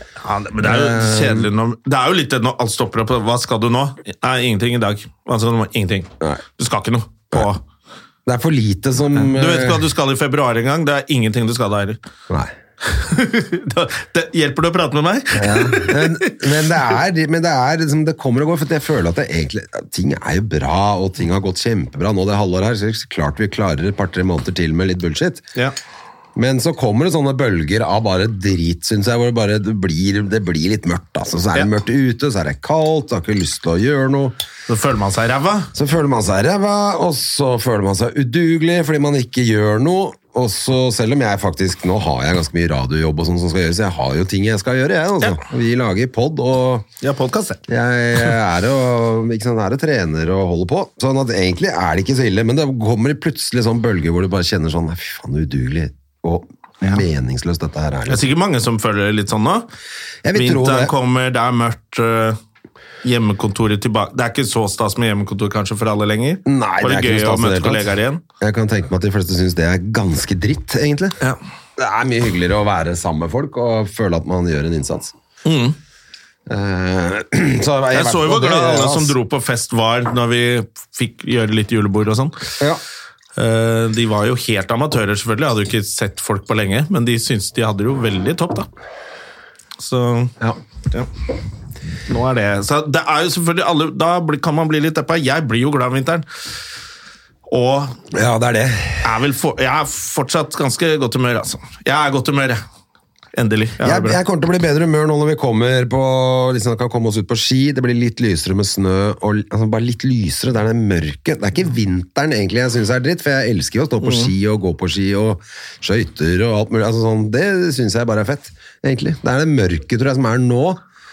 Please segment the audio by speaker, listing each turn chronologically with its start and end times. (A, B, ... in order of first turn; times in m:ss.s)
0:00.2-0:07.6 A
0:00.6-0:01.5 B
0:08.2-0:09.8 B
0:09.1-0:12.0 A
0:12.8-0:16.5 A
0:15.3-0:25.4 B
0:26.4-0:34.4 B
0:34.7-0:35.7 A
0:35.7-0:46.8 B
0:47.0-0:47.6 A
0:47.7-0:58.2 B
0:58.1-0:59.6 A
1:00.2-1:00.9 B
1:00.3-1:02.4 A
1:03.0-1:08.2 A
1:06.4-1:11.2 B
1:11.8-1:15.1 B
1:15.4-1:15.8 A
1:16.5-1:19.1 B
1:17.9-1:22.5 A
1:23.4-1:28.7 A
1:29.8-1:30.3 A
1:32.1-1:36.2 A
1:37.5-1:38.0 A
1:38.1-1:39.0 B
1:39.0-1:42.6 A
1:43.3-1:44.2 A
1:43.8-2:00.8 B
1:54.0-1:54.3 A